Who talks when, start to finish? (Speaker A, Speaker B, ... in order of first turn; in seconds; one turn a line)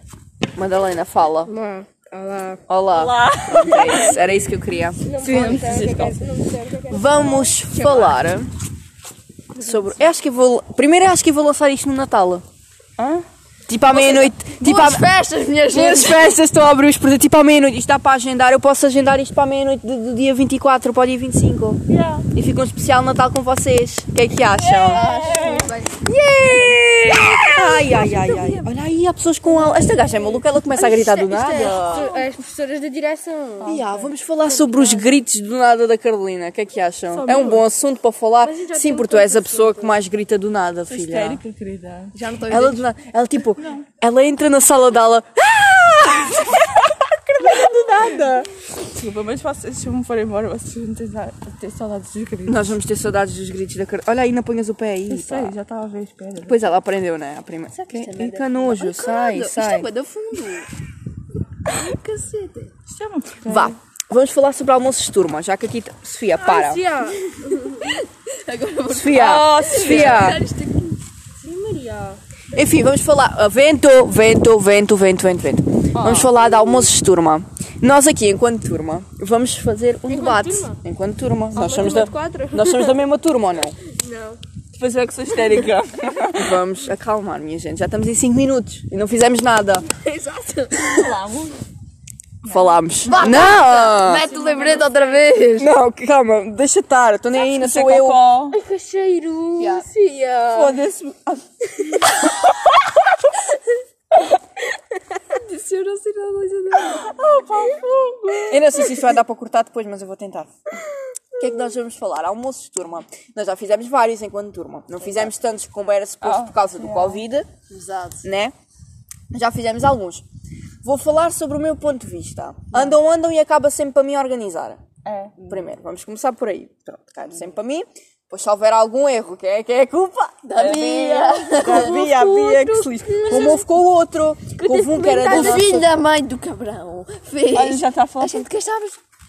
Speaker A: 0.6-1.5
Speaker B: 1.5-2.6
Speaker A: 2.7-5.9
Speaker C: 2.9-4.3
Speaker B: 3.7-4.1
Speaker B: 5.0-7.6
Speaker C: 5.2-6.2
Speaker A: 6.9-8.5
Speaker D: 7.8-8.1
Speaker A: 9.6-12.4
Speaker C: 13.0-13.2
Speaker A: 13.7-15.0
Speaker D: 13.9-16.3
Speaker A: 15.7-21.8
Speaker C: 21.9-22.3
Speaker A: 22.3-25.1
Speaker C: 24.5-25.8
Speaker D: 24.9-26.7
Speaker A: 26.0-32.1
Speaker B: 27.5-28.7
Speaker B: 29.5-33.8
Speaker C: 31.5-32.3
Speaker C: 33.6-34.1
Speaker A: 33.6-41.4
Speaker B: 34.5-35.1
Speaker C: 37.1-37.6
Speaker B: 38.4-40.0
Speaker C: 40.9-42.1
Speaker D: 42.1-42.9
Speaker A: 42.5-48.5
Speaker C: 43.6-43.9
Speaker C: 48.8-52.7
Speaker A: 52.5-55.5
Speaker C: 55.1-56.7
Speaker A: 56.5-59.9
Speaker D: 57.7-60.7
Speaker D: 61.7-62.7
Speaker C: 62.9-63.8
Speaker A: 63.4-66.8
Speaker B: 66.4-68.0
Speaker D: 68.4-71.0
Speaker A: 68.9-70.4
Speaker C: 69.1-70.3
Speaker B: 71.4-72.2
Speaker A: 72.5-83.8
Speaker C: 75.9-76.3
Speaker B: 76.4-76.9
Speaker B: 80.1-80.8
Speaker B: 81.5-83.0
Speaker B: 83.9-84.4
Speaker C: 84.7-86.6
Speaker A: 86.3-89.9
Speaker B: 89.9-91.1
Speaker C: 90.8-91.6
Speaker A: 92.4-94.3
Speaker C: 92.4-92.7
Speaker D: 93.0-95.7
Speaker B: 93.3-95.2
Speaker A: 95.6-98.2
Speaker C: 97.3-98.6
Speaker B: 98.5-100.8
Speaker D: 99.6-99.8
Speaker C: 100.5-102.1
Speaker C: 105.4-108.9
Speaker B: 106.0-107.0
Speaker A: 108.5-110.5
Speaker A: 111.4-117.5
Speaker C: 116.2-117.2
Speaker D: 117.7-118.3
Speaker A: 118.2-118.5
Speaker A: 119.3-120.2
Speaker A: 120.8-124.8
Speaker C: 125.0-125.3
Speaker D: 125.4-125.6
Speaker A: 125.5-135.9
Speaker D: 130.4-131.9
Speaker B: 131.5-133.7
Speaker B: 134.6-135.8
Speaker D: 135.2-139.0
Speaker C: 137.5-138.4